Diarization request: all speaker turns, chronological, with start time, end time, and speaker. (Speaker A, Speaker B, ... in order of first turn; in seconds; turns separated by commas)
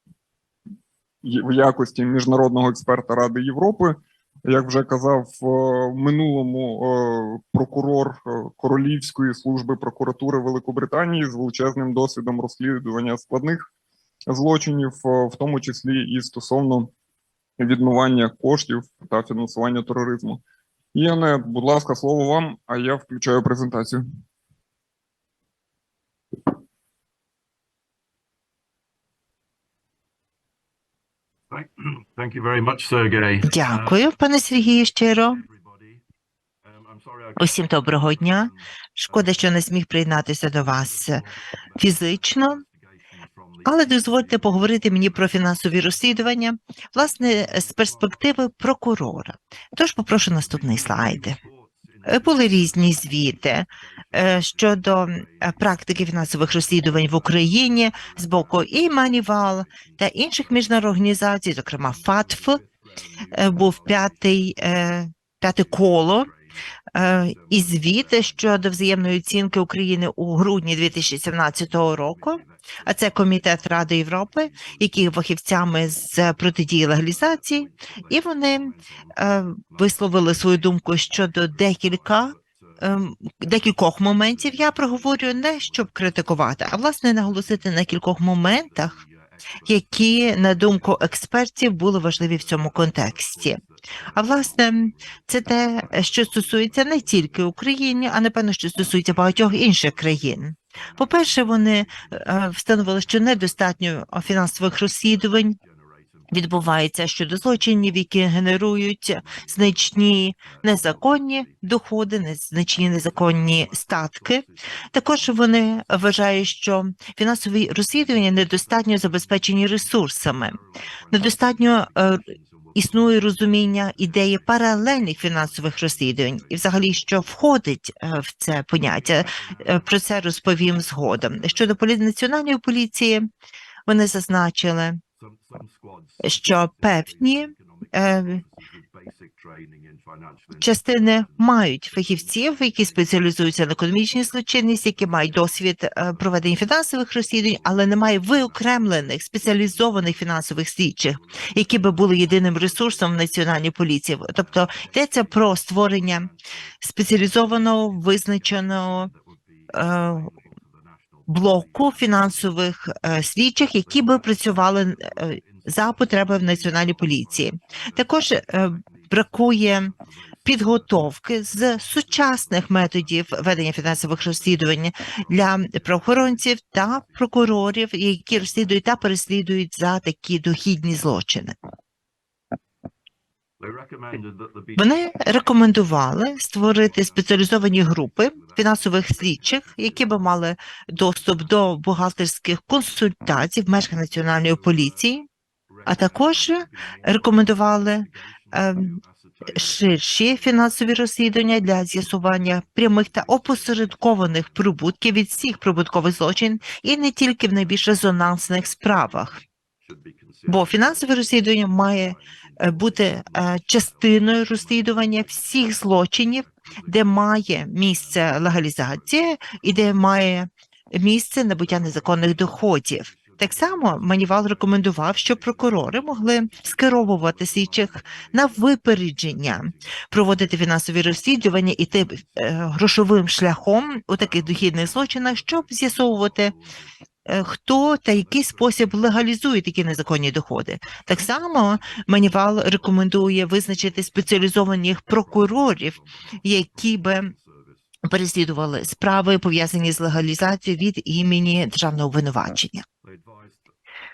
Speaker A: 1.2-13.7, Speaker A: 14.3-16.9, Speaker A: 17.6-20.4, Speaker A: 20.9-24.0, Speaker B: 31.5-34.0, Speaker C: 33.4-35.4, Speaker B: 35.3-36.0, Speaker B: 36.6-39.7, Speaker C: 37.4-41.2, Speaker B: 40.5-45.5, Speaker C: 41.8-42.6, Speaker C: 43.6-51.4, Speaker B: 47.1-48.1, Speaker B: 50.4-60.9, Speaker C: 52.0-62.6, Speaker B: 61.7-64.6, Speaker C: 63.3-66.3, Speaker B: 65.9-66.4, Speaker C: 66.9-89.0, Speaker B: 67.0-68.6, Speaker B: 71.8-73.4, Speaker B: 74.4-75.0, Speaker B: 76.8-82.9, Speaker B: 84.0-87.9, Speaker B: 88.5-91.2, Speaker C: 89.6-93.6, Speaker B: 92.2-97.5, Speaker C: 94.1-105.6, Speaker B: 100.9-102.2, Speaker B: 105.5-106.4, Speaker C: 106.3-120.6, Speaker B: 109.2-111.3, Speaker B: 112.8-114.5, Speaker B: 118.2-127.2, Speaker C: 121.1-122.2, Speaker C: 122.7-133.3, Speaker B: 128.9-129.9, Speaker B: 131.2-131.6, Speaker C: 133.9-135.0, Speaker B: 135.2-143.3, Speaker C: 136.2-138.4, Speaker C: 140.6-156.3, Speaker B: 146.1-146.4, Speaker B: 147.4-148.7, Speaker B: 149.4-150.1, Speaker B: 151.1-153.6, Speaker B: 154.2-162.6, Speaker C: 156.8-159.1, Speaker C: 159.7-160.3, Speaker C: 161.3-169.9, Speaker B: 163.8-176.2, Speaker C: 170.4-181.5, Speaker B: 176.9-177.2, Speaker B: 183.6-184.9, Speaker C: 184.8-195.2, Speaker B: 186.4-190.2, Speaker B: 194.2-195.0, Speaker B: 195.7-200.4, Speaker C: 195.8-198.9, Speaker C: 199.5-209.4, Speaker B: 203.1-204.7, Speaker B: 209.8-215.6, Speaker C: 210.5-236.5, Speaker B: 216.4-217.2, Speaker B: 217.8-219.1, Speaker B: 221.6-228.7, Speaker B: 229.5-230.4, Speaker B: 232.1-232.4, Speaker B: 234.4-236.9, Speaker C: 237.2-247.3, Speaker B: 238.2-238.9, Speaker B: 241.5-244.5, Speaker B: 245.1-247.8, Speaker C: 248.0-252.8, Speaker B: 253.0-253.7